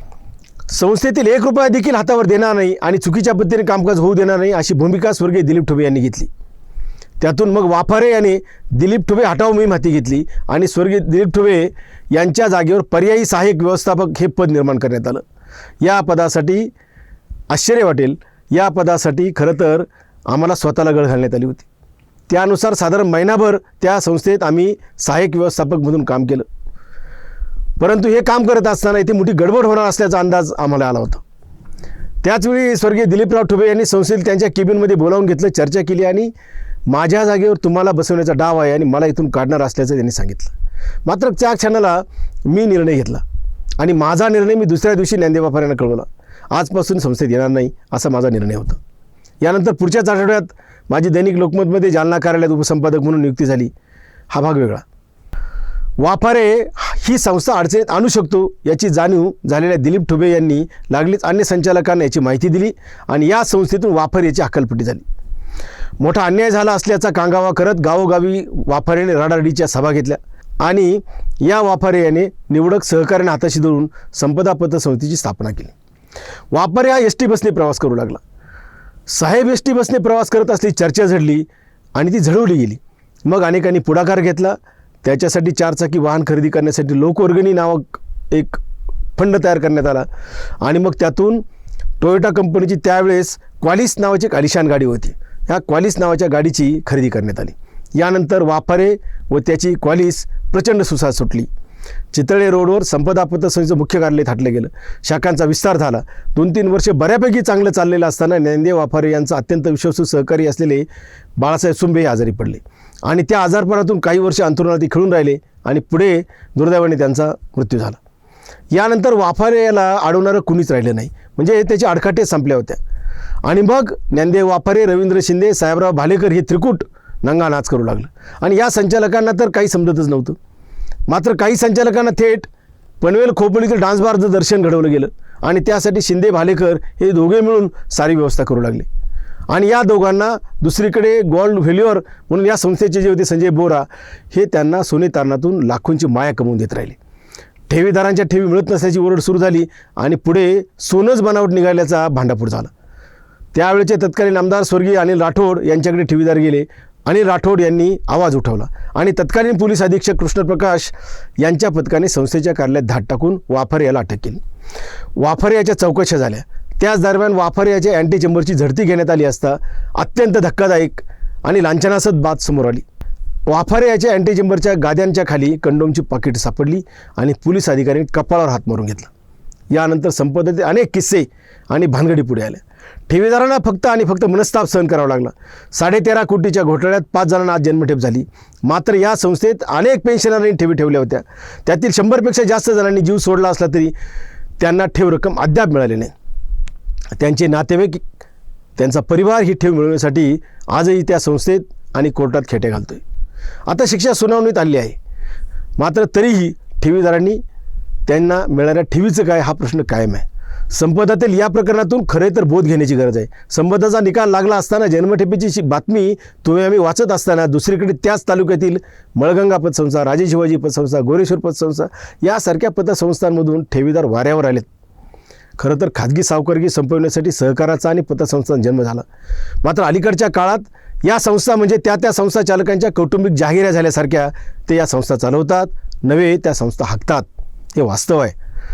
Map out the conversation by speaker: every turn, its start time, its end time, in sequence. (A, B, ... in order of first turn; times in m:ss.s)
0:00.7-0:06.3 A
0:07.2-0:15.2 A
0:15.8-0:16.7 A
0:17.5-0:21.7 A
0:22.3-0:26.4 A
0:27.8-0:31.2 A
0:32.2-0:36.3 A
0:36.9-0:43.2 A
0:43.8-0:48.8 A
0:49.4-0:53.7 A
0:54.3-0:54.8 A
0:56.0-1:05.0 A
1:06.0-1:15.7 A
1:16.5-1:18.2 A
1:19.1-1:28.6 A
1:29.2-1:30.1 A
1:30.6-1:31.4 A
1:32.0-1:41.5 A
1:42.1-1:58.0 A
1:58.7-2:02.8 A
2:03.4-2:10.4 A
2:11.1-2:12.5 A
2:13.0-2:18.9 A
2:19.5-2:27.0 A
2:27.7-2:32.7 A
2:33.5-2:44.4 A
2:45.2-2:52.8 A
2:53.5-2:59.1 A
2:59.7-3:13.9 A
3:14.6-3:16.1 A
3:17.1-3:18.0 A
3:18.8-3:23.0 A
3:23.7-3:25.0 A
3:25.8-3:27.4 A
3:28.1-3:44.7 A
3:45.6-3:49.0 A
3:49.6-3:58.3 A